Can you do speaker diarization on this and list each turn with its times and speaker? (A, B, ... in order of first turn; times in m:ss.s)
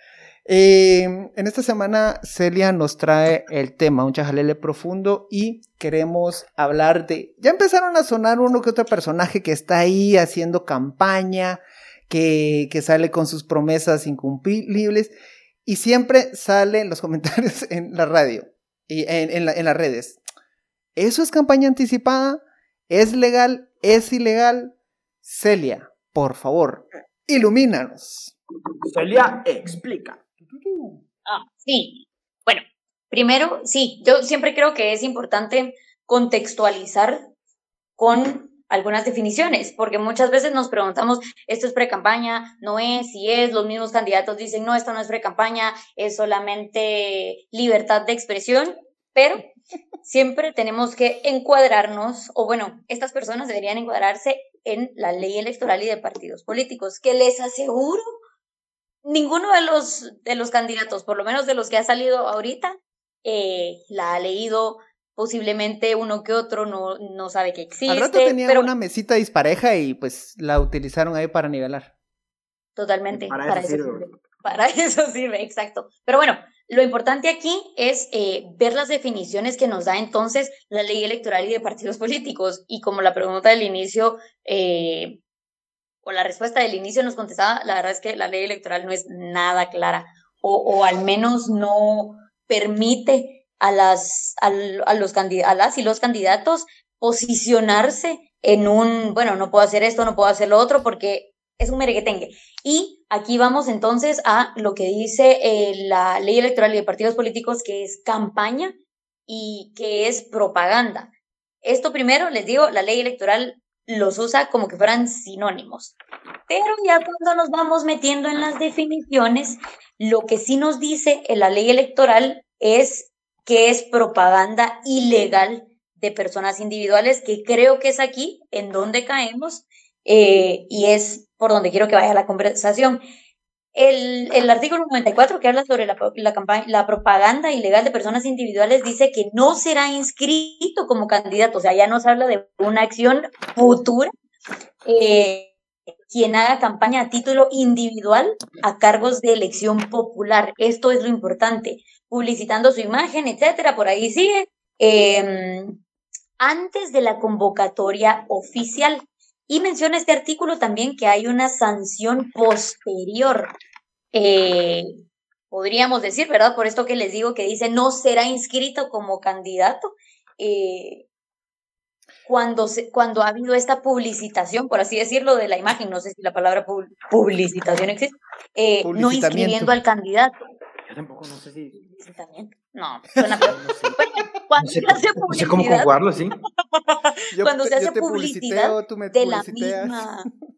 0:00.4-0:15.1 A
0:15.6-0:20.2 A
0:21.0-0:28.3 A
0:28.8-0:30.2 B
0:30.4-0:31.0 A
0:31.3-0:37.3 C
0:38.0-0:49.5 C
0:50.0-0:58.0 C
0:59.0-1:08.7 C
1:07.9-1:11.9 A
1:12.8-1:25.2 C
1:13.1-1:14.1 B
1:26.0-1:48.7 C
1:49.3-1:51.1 C
1:51.6-1:56.0 C
1:56.5-2:13.0 C
2:13.7-2:24.1 C
2:24.8-2:25.5 C
2:26.1-2:35.8 C
2:36.4-2:43.5 C
2:44.1-2:44.9 C
2:45.5-2:51.0 C
2:52.2-3:00.4 C
2:58.8-2:59.7 A
3:00.9-3:01.8 B
3:01.8-3:05.9 C
3:03.4-3:04.0 B
3:04.6-3:06.4 B
3:06.7-3:10.3 C
3:07.3-3:10.3 A